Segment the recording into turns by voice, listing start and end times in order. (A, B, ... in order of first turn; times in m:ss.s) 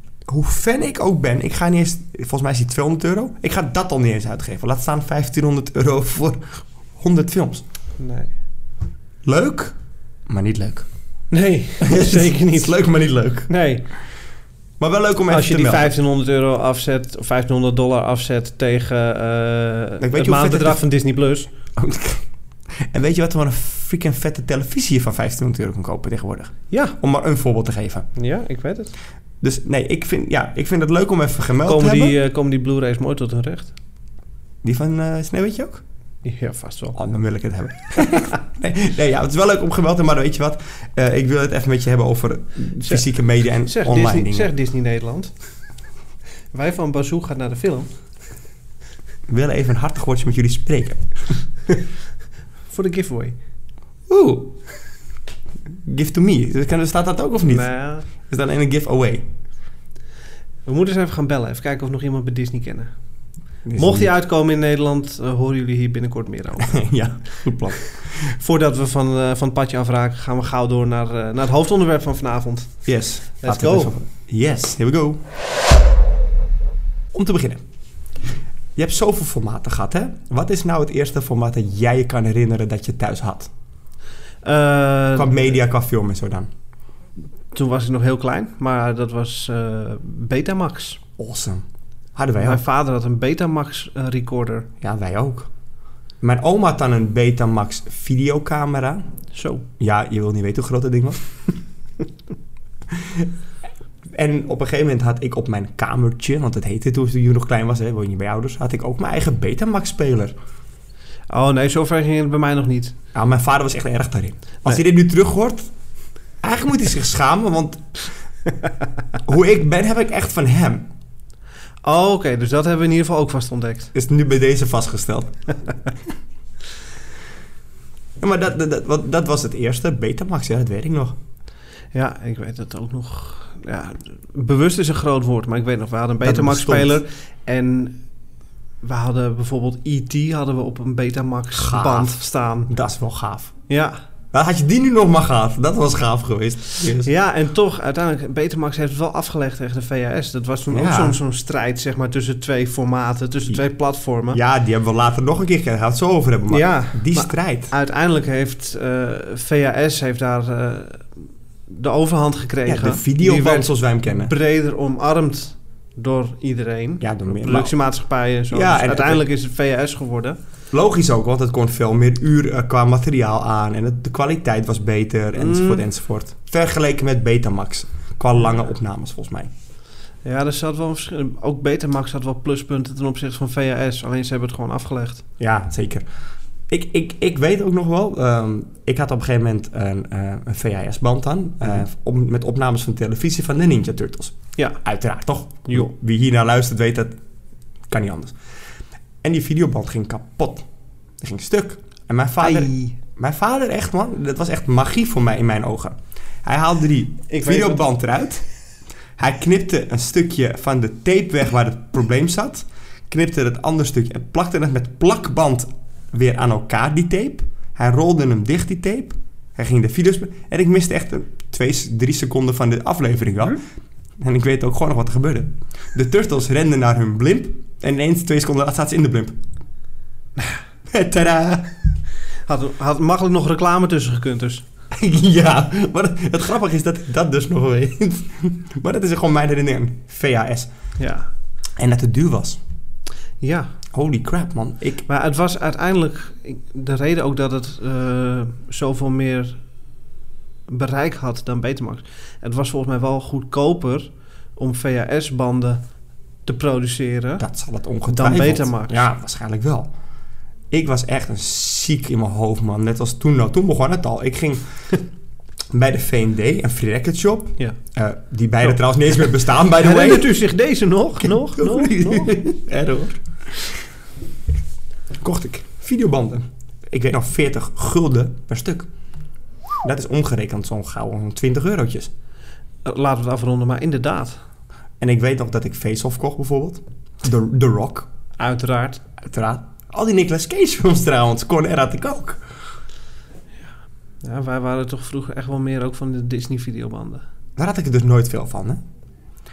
0:00.2-0:07.6 A
0:08.0-0:08.3 B
0:09.2-0:09.7 A
0:10.3-0:10.9 A
0:11.3-0:12.8 B
0:11.8-0:13.5 A
0:13.5-0:13.8 B
0:14.8-0:15.9 A
0:15.3-0:21.5 B
0:20.0-0:20.8 A
0:21.8-0:28.1 A
0:26.7-0:27.0 B
0:28.2-0:28.9 B
0:29.4-0:32.2 A
0:31.6-0:33.7 B
0:34.6-0:35.8 A
0:36.2-0:37.0 B
0:37.0-0:44.5 A
0:43.6-0:45.3 B
0:46.5-0:47.9 B
0:49.3-0:51.4 A
0:52.7-0:53.4 B
0:54.1-0:54.6 A
0:55.8-0:57.7 A
0:57.4-0:58.1 B
0:58.2-0:59.3 A
1:00.6-1:02.9 B
1:03.6-1:04.1 A
1:03.8-1:06.8 B
1:06.6-1:08.4 A
1:08.2-1:12.7 B
1:12.8-1:15.2 A
1:13.4-1:13.9 B
1:17.1-1:17.6 A
1:18.8-1:23.5 A
1:24.4-1:25.6 B
1:25.1-1:26.5 A
1:27.5-1:31.0 B
1:31.2-1:31.6 A
1:32.1-1:32.6 A
1:32.4-1:34.7 B
1:34.8-1:35.5 A
1:36.2-1:39.0 A
1:39.3-1:39.6 B
1:39.8-1:41.2 A
1:42.9-1:43.3 A
1:44.1-1:50.3 A
1:51.3-1:52.9 B
1:53.1-1:55.7 A
1:56.4-1:57.8 A
1:59.2-2:00.8 A
2:01.8-2:03.9 B
2:03.9-2:05.3 A
2:08.2-2:11.2 A
2:11.9-2:18.0 B
2:16.2-2:17.0 A
2:18.8-2:22.7 B
2:21.5-2:23.5 A
2:23.7-2:24.0 B
2:24.3-2:27.1 A
2:27.0-2:34.4 B
2:30.7-2:31.2 A
2:34.3-2:37.7 A
2:36.5-2:41.1 B
2:41.7-2:50.4 B
2:42.6-2:44.3 A
2:47.0-2:47.7 A
2:48.5-2:49.2 A
2:50.7-2:59.5 A
2:55.4-2:55.8 B
3:00.2-3:05.2 B
3:05.4-3:06.0 A
3:06.7-3:17.1 A
3:17.9-3:18.4 A
3:19.2-3:20.6 A
3:21.2-3:28.4 A
3:22.4-3:22.9 B
3:27.3-3:27.8 B
3:29.2-3:43.6 A
3:44.2-3:49.4 A
3:50.9-3:51.8 A
3:52.5-3:54.6 B
3:54.9-4:00.7 A
4:01.0-4:01.3 B
4:01.8-4:02.6 A
4:03.4-4:03.7 B
4:03.9-4:05.0 A
4:05.1-4:09.6 B
4:10.7-4:15.8 B
4:16.4-4:17.4 B
4:17.4-4:19.9 A
4:18.1-4:19.0 B
4:20.7-4:24.7 A
4:25.7-4:30.4 A
4:29.7-4:32.4 B
4:31.2-4:33.7 A
4:35.2-4:38.9 A
4:39.8-4:42.1 A
4:42.8-4:44.4 B
4:45.0-4:48.1 A
4:48.4-4:49.0 B
4:49.2-4:52.4 A
4:54.2-4:57.2 B
4:57.6-4:58.8 A